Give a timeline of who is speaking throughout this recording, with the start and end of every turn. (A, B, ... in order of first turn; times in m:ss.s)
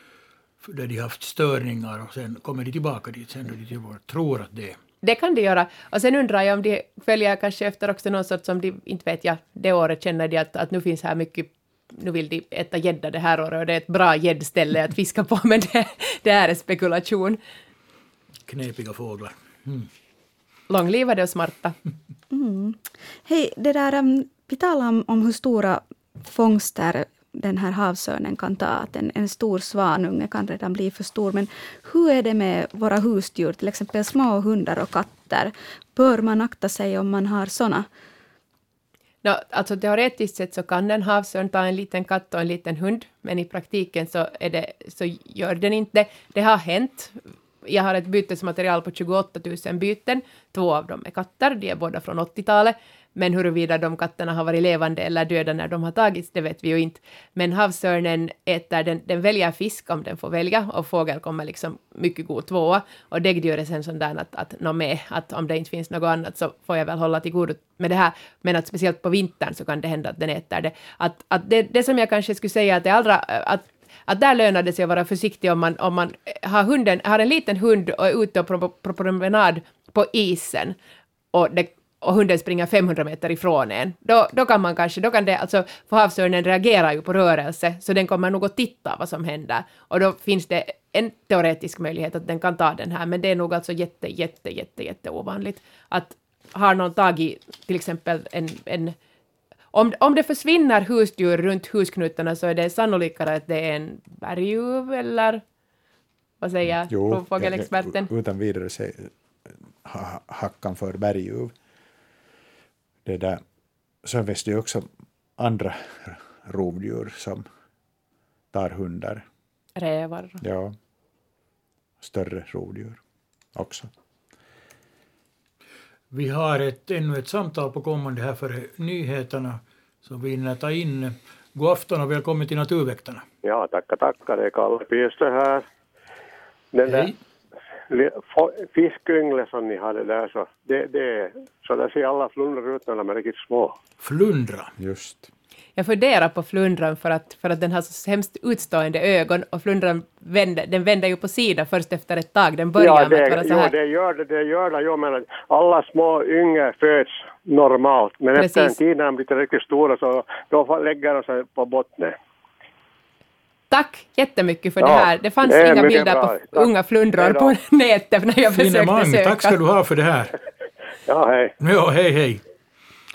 0:00.6-0:04.8 A
0:05.0-0:17.4 B
0:18.5-0:19.9 A
0:20.7-0:21.7 B
0:22.3-0:37.9 C
0:39.2-1:20.8 B
1:21.3-1:39.0 B
1:39.7-1:45.4 B
1:46.4-1:48.1 B
1:46.8-1:49.1 D
1:49.8-1:51.5 D
1:53.0-1:53.4 D
1:54.0-1:57.5 D
1:58.5-1:59.2 D
1:59.8-2:00.4 B
2:00.4-2:00.8 D
2:02.0-2:03.0 D
2:03.5-2:03.9 D
2:06.1-2:13.2 A
2:13.4-2:15.6 E
2:16.7-2:17.1 E
2:16.8-2:17.2 A
2:17.9-2:23.8 E
2:24.0-2:24.7 A
2:24.8-2:25.3 D
2:25.8-2:33.7 B
2:32.8-2:42.2 E
2:38.3-2:38.8 B
2:43.7-2:49.6 B
2:44.8-2:47.5 E
2:48.5-2:50.3 A
2:51.1-2:51.5 E
2:51.6-2:52.4 A